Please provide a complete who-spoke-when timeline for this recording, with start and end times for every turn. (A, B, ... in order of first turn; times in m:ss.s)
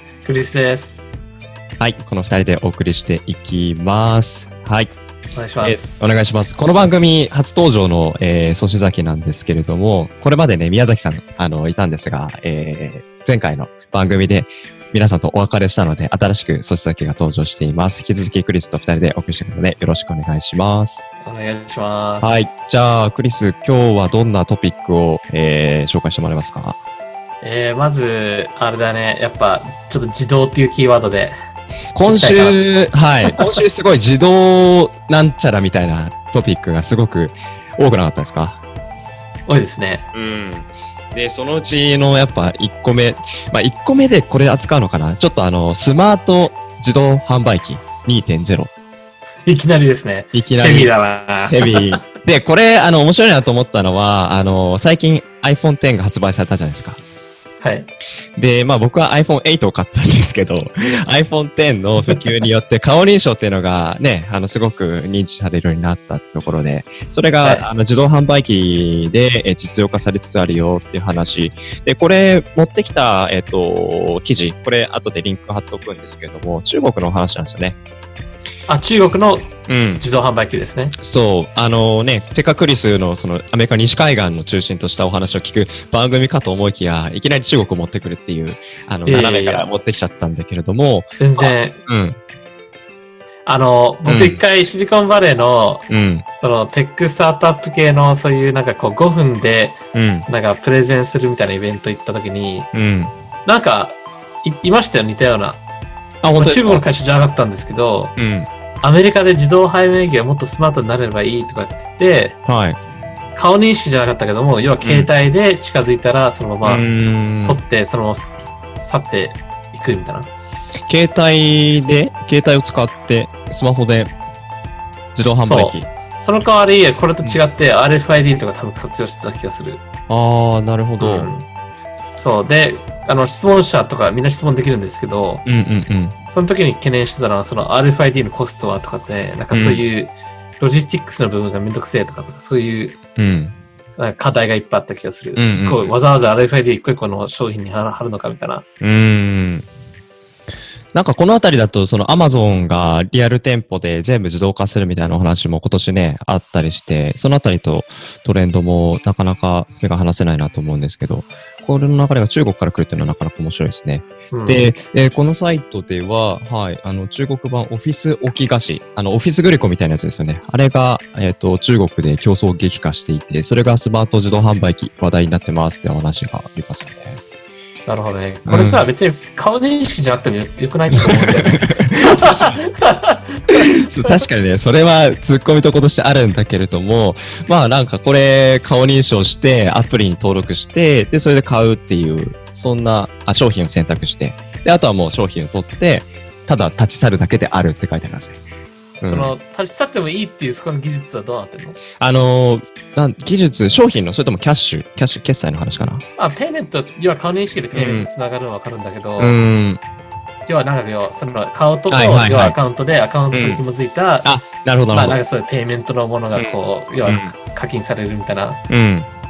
0:00.2-0:01.1 A
0:01.8-0:04.9 B
0:05.3-0:06.0 A
0:05.6-0:21.0 B
0:21.2-0:22.4 A
0:22.2-0:26.8 B
0:27.4-0:31.4 A
0:31.9-0:38.6 B
0:32.1-0:32.6 A
0:33.2-0:33.5 A
0:39.5-0:40.1 A
0:40.1-0:48.7 B
0:49.5-0:52.0 A
0:50.3-0:50.9 B
0:51.4-0:57.0 B
0:57.6-0:57.9 A
0:58.4-1:17.8 B
1:07.4-1:07.7 A
1:18.7-1:21.0 A
1:19.7-1:20.0 B
1:21.0-1:32.2 B
1:29.1-1:29.7 A
1:31.2-1:31.8 A
1:33.5-1:42.7 A
1:34.1-1:34.4 B
1:35.9-1:36.2 B
1:39.9-1:40.3 B
1:42.7-1:43.1 B
1:43.4-1:45.6 A
1:46.2-1:46.8 B
1:46.4-1:48.2 A
1:48.2-1:48.5 B
1:48.8-1:52.4 A
1:52.5-1:52.8 B
1:53.4-1:56.9 A
1:54.8-1:55.1 B
1:56.6-1:57.6 B
1:57.4-2:00.3 A
2:00.9-2:04.1 B
2:05.2-2:05.9 B
2:05.4-2:09.8 A
2:10.1-2:11.3 B
2:11.0-2:11.5 A
2:12.1-2:15.4 A
2:15.4-2:16.2 B
2:16.3-2:23.0 A
2:19.5-2:19.8 B
2:23.2-2:23.6 B
2:24.0-2:28.6 A
2:25.4-2:25.9 B
2:28.8-2:29.7 B
2:30.9-2:57.2 B
2:44.3-2:44.7 A
2:57.9-3:04.2 A
2:58.5-2:58.8 B
3:00.9-3:02.6 B
3:03.7-3:18.4 B
3:19.0-3:19.3 B
3:19.1-3:21.8 A
3:22.0-3:26.0 B
3:26.2-3:29.4 A
3:27.7-3:28.1 B
3:29.2-3:29.8 B
3:30.5-3:34.3 A
3:31.9-3:32.6 B
3:33.3-3:33.6 B
3:34.2-3:35.2 B
3:34.9-3:38.6 A
3:36.4-3:37.3 B
3:38.7-3:39.1 B